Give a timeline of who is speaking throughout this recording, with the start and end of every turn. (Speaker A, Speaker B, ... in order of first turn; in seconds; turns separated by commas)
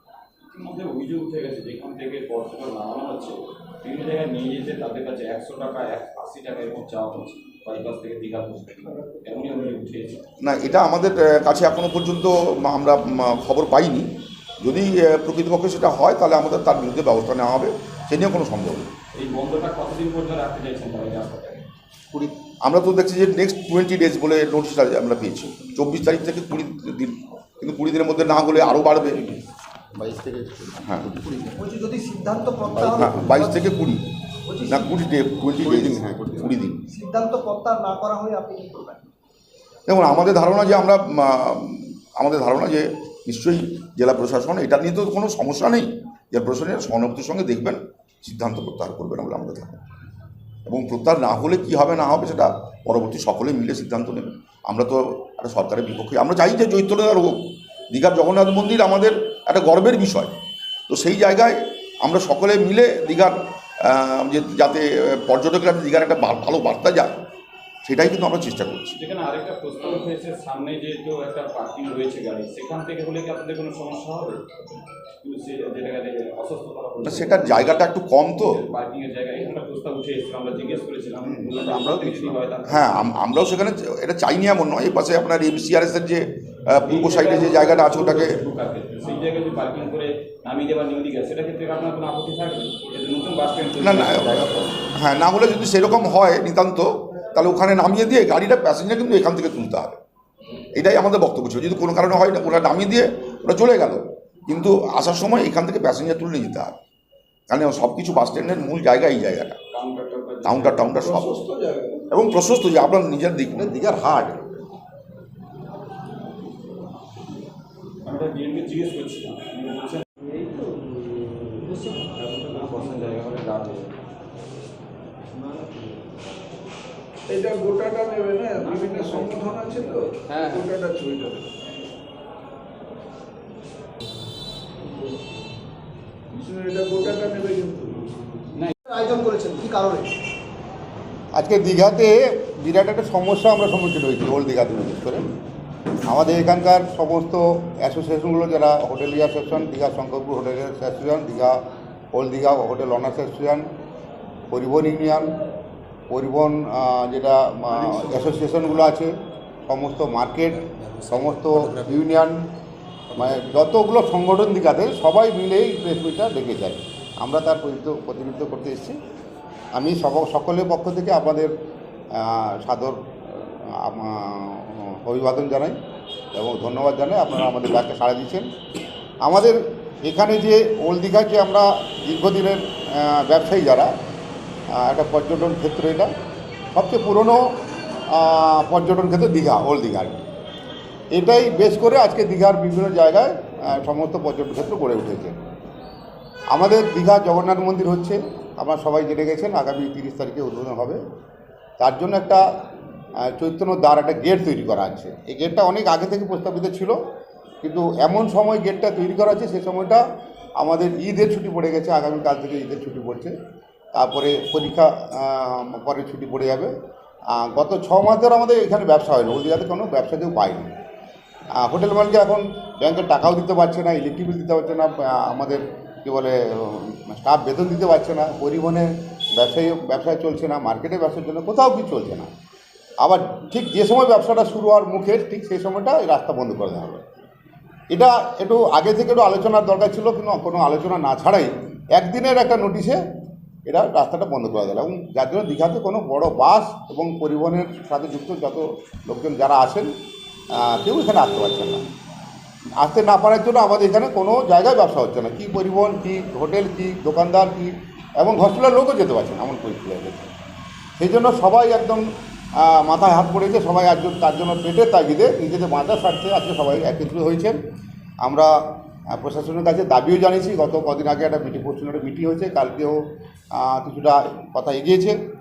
Speaker A: 0.6-10.2, Speaker B: 10.4-18.9, Speaker A: 19.1-21.7, Speaker B: 22.1-29.2, Speaker A: 28.5-29.4, Speaker C: 29.9-31.6, Speaker B: 30.8-31.1, Speaker D: 31.6-33.6, Speaker C: 32.8-33.2, Speaker B: 32.8-34.1, Speaker D: 34.5-35.0, Speaker B: 34.7-36.8, Speaker C: 35.6-36.6, Speaker D: 36.9-39.0, Speaker B: 39.9-49.8, Speaker B: 50.7-60.3, Speaker B: 60.9-67.2, Speaker B: 67.8-69.0, Speaker A: 68.9-74.4, Speaker A: 75.2-77.8, Speaker B: 77.0-78.6, Speaker A: 78.3-83.0, Speaker B: 81.2-88.4, Speaker A: 86.9-94.7, Speaker B: 93.8-100.0, Speaker B: 100.7-106.8, Speaker B: 107.5-109.6, Speaker A: 109.7-110.9, Speaker B: 110.4-111.3, Speaker E: 111.0-112.0, Speaker B: 112.1-113.8, Speaker C: 113.6-114.6, Speaker A: 118.0-120.0, Speaker A: 121.6-123.9, Speaker E: 127.3-131.4, Speaker A: 128.7-129.4, Speaker A: 130.3-130.7, Speaker E: 136.3-138.1, Speaker D: 138.8-140.1, Speaker C: 141.3-145.3, Speaker C: 146.1-151.6, Speaker C: 152.1-153.7, Speaker C: 154.5-155.3, Speaker C: 156.1-159.1, Speaker C: 159.7-162.5, Speaker C: 163.2-169.0, Speaker C: 169.8-171.5, Speaker C: 172.1-175.8, Speaker C: 176.3-178.5, Speaker C: 179.2-183.9, Speaker C: 184.7-186.1, Speaker C: 186.8-187.4, Speaker C: 188.1-190.2, Speaker C: 191.1-195.4, Speaker C: 196.5-201.0, Speaker C: 201.8-202.4, Speaker C: 203.2-207.0, Speaker C: 207.6-210.0, Speaker C: 210.6-213.3, Speaker C: 213.9-216.7, Speaker C: 217.3-220.7, Speaker C: 221.6-232.3, Speaker C: 233.0-237.1, Speaker C: 237.9-243.0, Speaker C: 243.7-249.9, Speaker C: 250.5-251.9, Speaker C: 252.8-260.3, Speaker C: 261.0-262.1, Speaker C: 262.6-267.6, Speaker C: 268.2-268.5, Speaker C: 269.1-273.0, Speaker C: 273.6-275.2